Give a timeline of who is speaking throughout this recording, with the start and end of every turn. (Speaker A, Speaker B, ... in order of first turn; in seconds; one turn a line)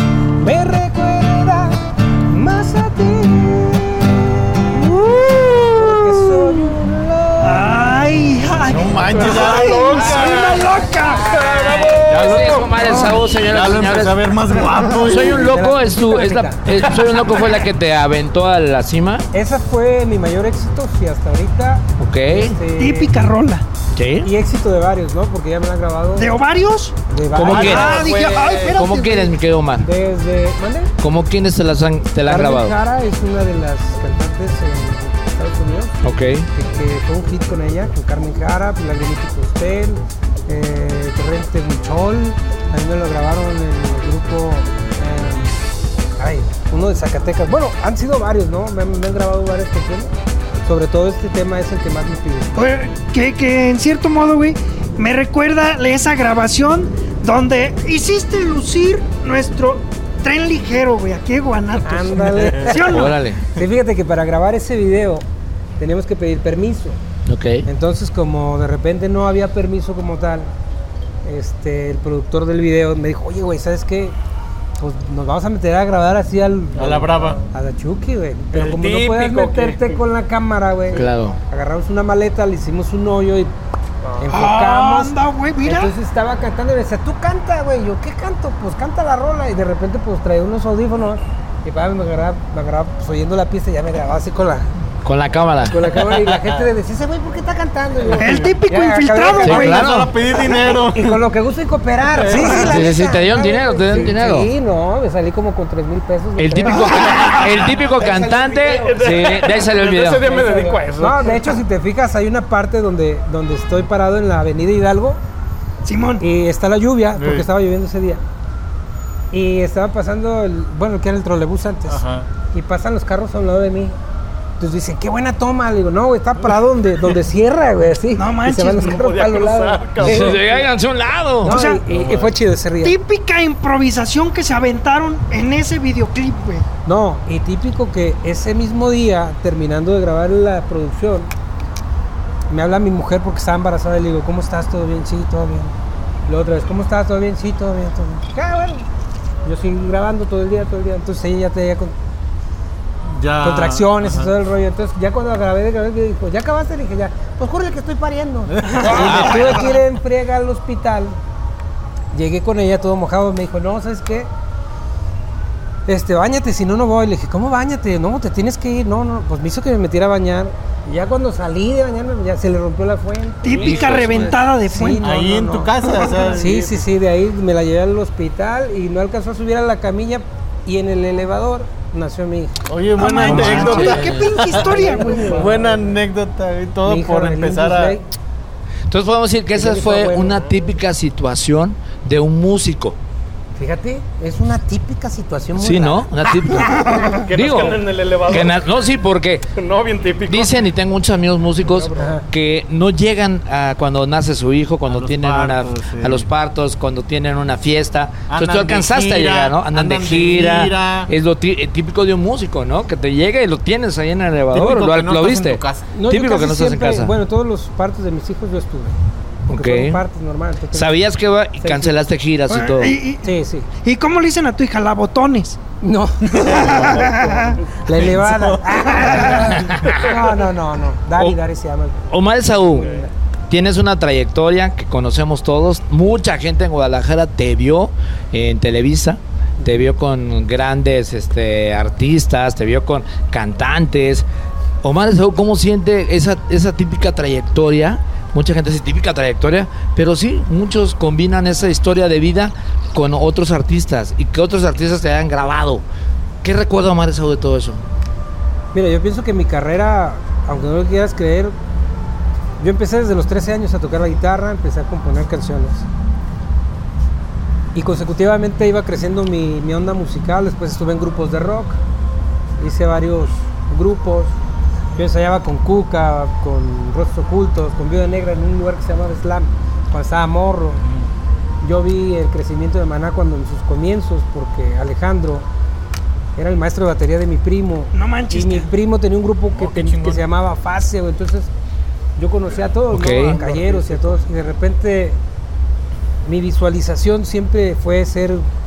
Speaker A: 0.4-4.9
Speaker B: 4.7-6.7
Speaker A: 5.6-8.1
Speaker B: 7.4-11.4
Speaker C: 8.6-10.8
Speaker D: 9.1-12.7
Speaker E: 11.3-14.2
Speaker C: 12.1-15.4
Speaker E: 14.8-19.3
Speaker A: 15.2-16.6
Speaker A: 19.3-23.1
Speaker E: 22.0-22.6
Speaker B: 22.8-23.6
Speaker E: 23.9-24.3
Speaker A: 24.2-26.3
Speaker B: 26.2-26.9
Speaker A: 27.1-27.9
Speaker E: 27.3-29.8
Speaker C: 27.4-28.8
Speaker B: 27.5-29.3
Speaker A: 29.8-30.9
Speaker E: 31.0-32.8
Speaker A: 32.2-35.9
Speaker E: 36.0-36.5
Speaker A: 36.5-45.5
Speaker A: 46.2-50.1
Speaker A: 50.6-52.6
Speaker B: 52.5-63.2
Speaker A: 61.8-65.2
Speaker C: 62.3-62.7
Speaker E: 62.8-63.4
Speaker A: 65.8-67.0
Speaker E: 67.2-67.6
Speaker A: 67.6-70.5
Speaker A: 71.2-74.2
Speaker A: 74.8-83.5
Speaker C: 76.7-77.4
Speaker D: 78.5-80.0
Speaker E: 80.9-81.4
Speaker A: 84.2-94.7
Speaker B: 84.3-85.9
Speaker E: 95.0-95.9
Speaker A: 95.6-99.8
Speaker C: 96.0-96.7
Speaker C: 98.1-98.5
Speaker B: 98.2-100.0
Speaker E: 99.4-100.1
Speaker C: 99.5-101.3
Speaker A: 100.8-108.7
Speaker C: 102.1-102.9
Speaker E: 102.5-104.5
Speaker E: 106.4-110.2
Speaker B: 106.7-107.7
Speaker D: 108.7-111.5
Speaker A: 110.2-115.2
Speaker B: 115.8-116.2
Speaker A: 116.2-118.2
Speaker C: 117.1-117.5
Speaker A: 119.3-123.9
Speaker C: 121.9-122.3
Speaker A: 124.6-130.4
Speaker B: 128.1-129.0
Speaker D: 128.8-130.7
Speaker E: 130.0-131.5
Speaker A: 131.4-133.0
Speaker B: 131.4-131.8
Speaker C: 131.9-132.3
Speaker B: 132.8-136.7
Speaker A: 136.8-141.3
Speaker A: 142.5-145.7
Speaker A: 146.3-148.8
Speaker A: 149.4-151.9
Speaker C: 153.1-154.3
Speaker A: 153.4-161.2
Speaker C: 158.5-159.3
Speaker B: 158.7-159.6
Speaker E: 158.9-159.8
Speaker A: 162.1-164.3
Speaker A: 165.9-175.7
Speaker B: 173.4-175.0
Speaker E: 173.6-174.4
Speaker C: 175.0-176.8
Speaker A: 176.3-182.5
Speaker C: 182.7-188.0
Speaker B: 183.0-185.4
Speaker E: 183.2-184.1
Speaker A: 183.5-183.8
Speaker A: 184.5-185.8
Speaker A: 186.8-188.1
Speaker E: 188.9-193.0
Speaker A: 189.5-190.4
Speaker A: 193.6-196.7
Speaker E: 195.6-199.5
Speaker D: 197.2-198.6
Speaker D: 199.6-200.7
Speaker E: 200.3-217.1
Speaker D: 201.6-202.1
Speaker A: 202.0-202.2
Speaker C: 204.9-206.3
Speaker C: 208.3-211.1
Speaker C: 214.5-215.9
Speaker A: 215.9-218.9
Speaker E: 219.5-220.0
Speaker A: 219.5-221.0
Speaker E: 220.7-223.0
Speaker A: 221.6-222.1
Speaker B: 222.5-225.6
Speaker A: 223.2-223.7
Speaker A: 225.8-233.1
Speaker B: 226.3-227.6
Speaker C: 226.4-227.1
Speaker C: 227.9-229.5
Speaker E: 229.3-230.1
Speaker E: 232.1-232.9
Speaker E: 233.5-244.2
Speaker A: 239.6-239.8
Speaker E: 244.8-255.8
Speaker E: 256.4-257.8
Speaker A: 258.7-261.5
Speaker A: 262.6-265.9
Speaker A: 267.7-271.8
Speaker A: 272.6-274.3
Speaker A: 274.9-280.8
Speaker C: 280.8-281.1
Speaker A: 281.6-285.5
Speaker A: 286.4-291.5
Speaker B: 287.9-288.7
Speaker C: 289.5-290.2
Speaker A: 292.2-295.2
Speaker E: 292.9-293.4
Speaker D: 293.4-294.2
Speaker A: 296.2-298.4